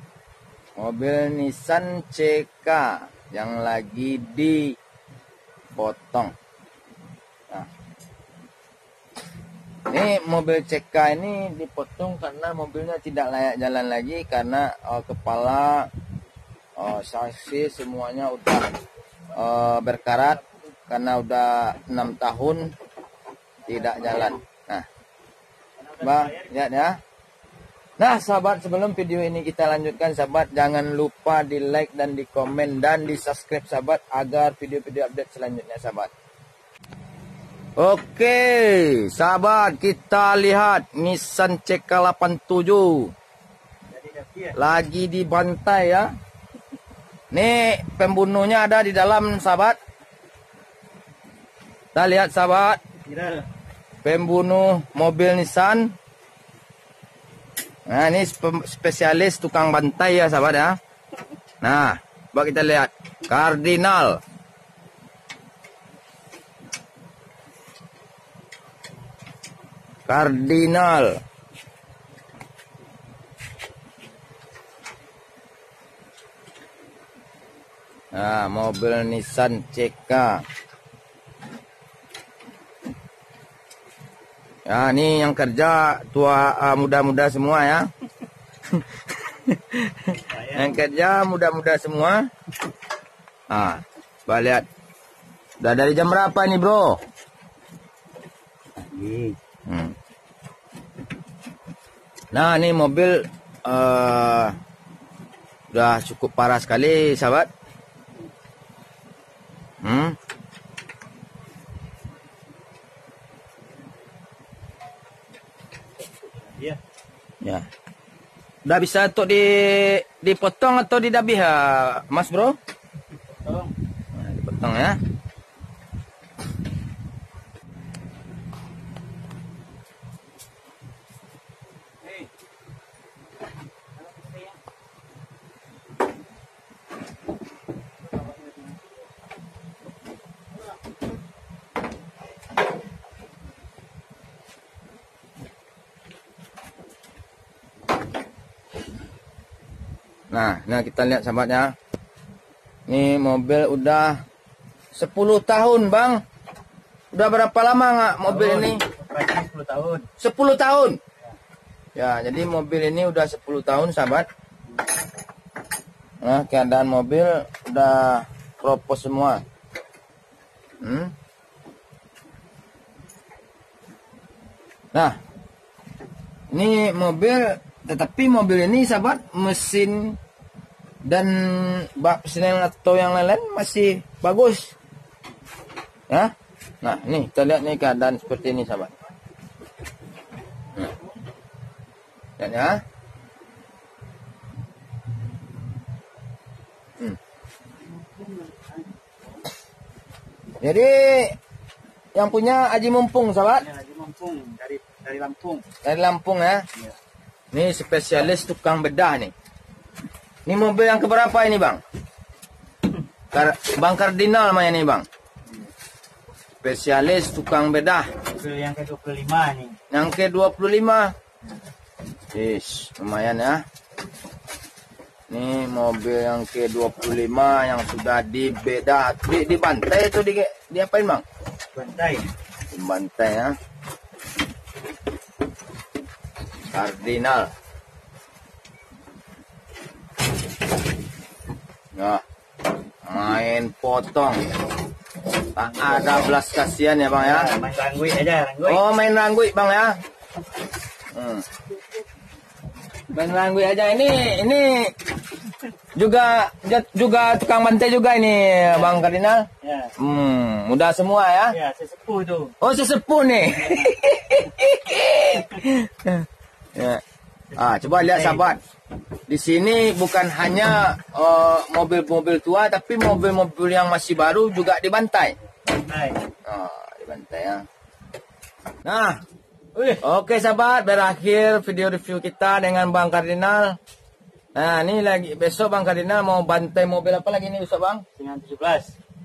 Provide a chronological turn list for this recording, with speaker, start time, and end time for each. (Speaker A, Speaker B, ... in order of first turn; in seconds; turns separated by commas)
Speaker A: 0.8-4.8, Speaker A: 5.8-6.3, Speaker A: 9.9-15.9, Speaker A: 16.8-18.7, Speaker A: 19.4-22.7, Speaker A: 23.7-24.9, Speaker B: 25.8-26.5, Speaker A: 26.0-27.0, Speaker A: 28.0-36.1, Speaker A: 37.8-43.1, Speaker B: 43.9-44.6, Speaker A: 44.6-46.1, Speaker A: 47.3-49.8, Speaker A: 52.0-52.8, Speaker B: 53.1-53.5, Speaker A: 54.0-55.9, Speaker A: 57.9-60.8, Speaker A: 61.6-64.2, Speaker A: 70.1-71.2, Speaker A: 78.1-80.4, Speaker A: 84.7-87.9, Speaker A: 88.7-92.3, Speaker B: 90.3-90.8, Speaker A: 93.5-94.7, Speaker A: 95.6-97.0, Speaker B: 98.9-99.4, Speaker A: 99.7-100.0, Speaker A: 102.3-104.6, Speaker A: 105.7-107.5, Speaker A: 109.8-110.2, Speaker B: 116.2-116.8, Speaker A: 118.7-122.6, Speaker B: 123.4-123.7, Speaker A: 124.1-125.0, Speaker B: 132.0-132.3, Speaker B: 134.0-134.5, Speaker A: 150.3-151.8, Speaker A: 152.9-154.2, Speaker A: 154.9-156.2, Speaker A: 157.1-158.8, Speaker B: 158.2-160.1, Speaker A: 160.2-161.0, Speaker A: 162.0-164.3, Speaker A: 166.2-169.4, Speaker A: 170.8-171.1, Speaker A: 176.5-180.2, Speaker A: 181.0-184.8, Speaker A: 186.1-188.9, Speaker A: 192.4-192.8, Speaker B: 198.2-198.9, Speaker A: 200.6-201.4, Speaker A: 202.2-203.7, Speaker B: 203.6-205.7, Speaker A: 205.8-206.7, Speaker A: 207.5-209.3, Speaker A: 210.5-211.8, Speaker A: 213.3-215.1, Speaker A: 216.6-218.1, Speaker B: 218.3-219.8, Speaker A: 219.9-221.1, Speaker A: 222.3-223.6, Speaker A: 225.3-231.2, Speaker B: 231.7-232.3, Speaker A: 232.7-233.6, Speaker A: 236.7-237.5, Speaker A: 242.0-242.2, Speaker A: 243.1-244.5, Speaker A: 245.5-247.5, Speaker B: 247.2-248.8, Speaker A: 248.7-250.0, Speaker A: 251.2-251.5, Speaker A: 253.1-254.9, Speaker A: 255.9-261.6, Speaker B: 258.7-259.0, Speaker B: 259.6-259.9, Speaker B: 261.5-262.5, Speaker A: 262.6-267.0, Speaker B: 267.5-268.5, Speaker A: 267.6-268.6, Speaker A: 269.3-275.4, Speaker B: 275.7-276.2, Speaker A: 276.4-277.6, Speaker A: 278.8-279.2, Speaker B: 279.7-280.0, Speaker A: 280.0-283.8, Speaker A: 284.6-288.1, Speaker B: 288.2-288.9